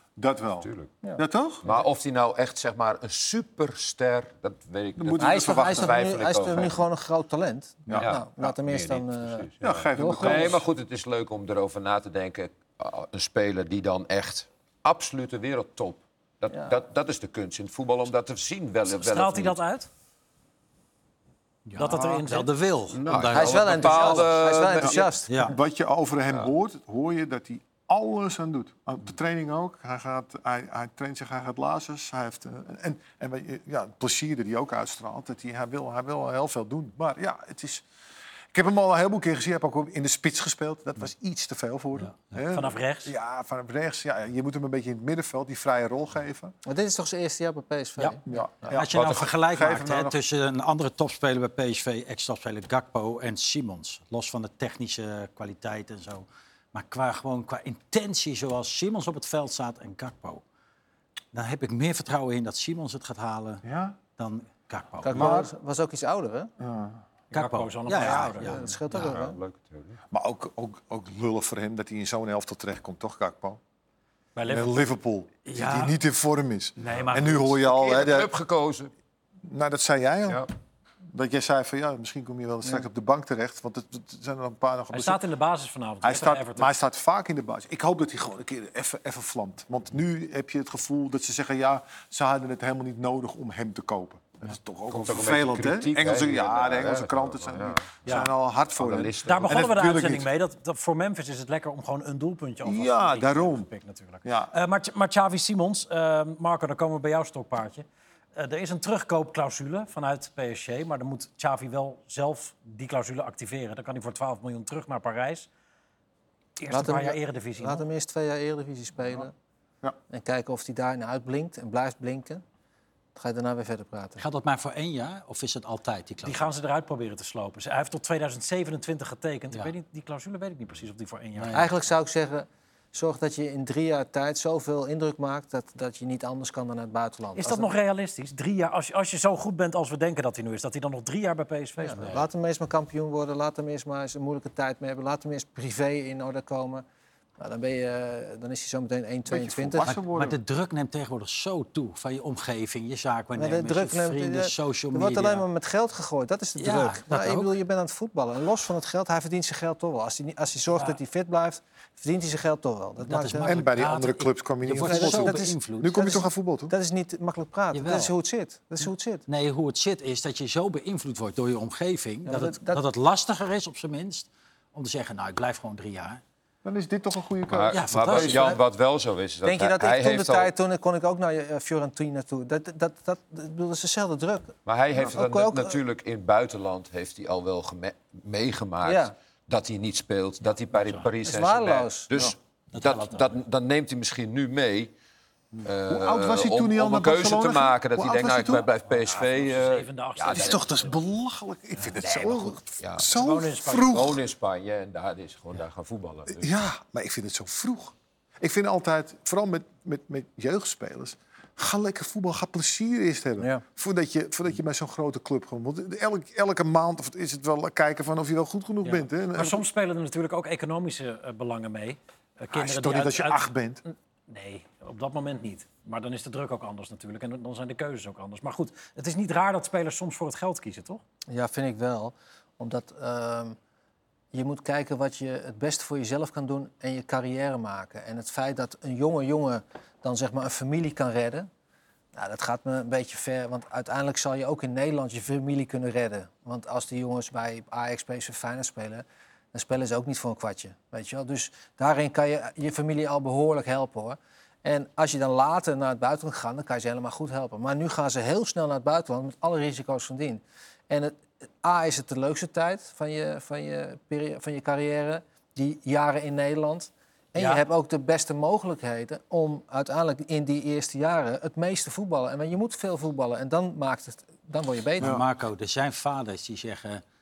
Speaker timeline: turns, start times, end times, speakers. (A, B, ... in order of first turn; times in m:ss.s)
0:00.2-0:01.7 A
0:00.6-0:00.9 B
0:01.6-0:06.8 B
0:05.0-0:06.0 A
0:05.2-0:10.6 C
0:07.9-0:08.2 A
0:07.9-0:19.6 B
0:09.6-0:10.6 A
0:19.0-0:19.9 D
0:21.7-0:24.2 E
0:21.8-0:22.5 D
0:22.9-0:25.1 B
0:23.2-0:25.3 C
0:24.8-0:37.8 A
0:25.3-0:25.6 E
0:38.5-0:46.5 A
0:42.0-0:42.3 E
0:42.5-0:43.1 D
0:46.7-0:48.2 C
0:48.3-0:50.2 A
0:48.7-1:00.4 E
1:01.3-1:03.6 E
1:03.6-1:04.0 A
1:04.2-1:05.3 E
1:05.0-1:06.5 C
1:05.1-1:05.5 A
1:06.6-1:07.0 A
1:07.3-1:08.6 D
1:07.3-1:08.7 E
1:08.4-1:09.4 C
1:08.9-1:10.0 B
1:10.1-1:13.6 A
1:14.4-1:14.8 D
1:14.5-1:18.3 A
1:15.4-1:16.0 E
1:16.8-1:17.6 E
1:17.6-1:18.9 B
1:19.4-1:20.4 A
1:21.1-1:25.2 A
1:24.9-1:26.7 D
1:26.0-1:40.3 A
1:34.9-1:38.0 B
1:38.7-1:39.7 B
1:39.2-1:55.5 D
1:42.6-1:43.7 A
1:44.2-1:44.5 A
1:56.6-1:57.9 D
1:56.7-1:59.3 C
2:00.1-2:02.4 C
2:03.1-2:04.2 C
2:04.2-2:06.5 E
2:06.2-2:11.6 D
2:11.4-2:11.7 E
2:11.5-2:17.7 C
2:17.4-2:22.2 D
2:21.8-2:26.8 C
2:27.4-2:29.9 C
2:29.3-2:30.4 A
2:29.8-2:35.4 E
2:33.3-2:43.6 C
2:36.6-2:37.6 E
2:43.0-2:46.2 E
2:43.4-2:46.7 A
2:44.8-2:49.2 C
2:47.7-2:48.1 E
2:49.3-2:56.2 E
2:52.3-2:52.8 C
2:56.6-2:58.6 A
2:57.5-3:00.5 B
2:57.7-2:58.6 E
2:59.4-3:05.8 C
3:04.7-3:14.9 B
3:08.8-3:09.1 C
3:11.2-3:12.1 C
3:12.7-3:13.4 E
3:15.6-3:20.8 B
3:15.9-3:18.7 A
3:18.9-3:21.0 D
3:20.3-3:24.2 A
3:22.0-3:23.1 B
3:23.1-3:24.0 D
3:23.9-3:26.5 B
3:26.3-3:39.6 A
3:38.8-3:51.0 D
3:42.5-3:43.8 A
3:51.3-3:53.6 C
3:54.3-4:01.5 C
4:02.1-4:35.1 C
4:27.4-4:27.6 D
4:35.0-4:35.2 A
4:35.0-4:37.0 E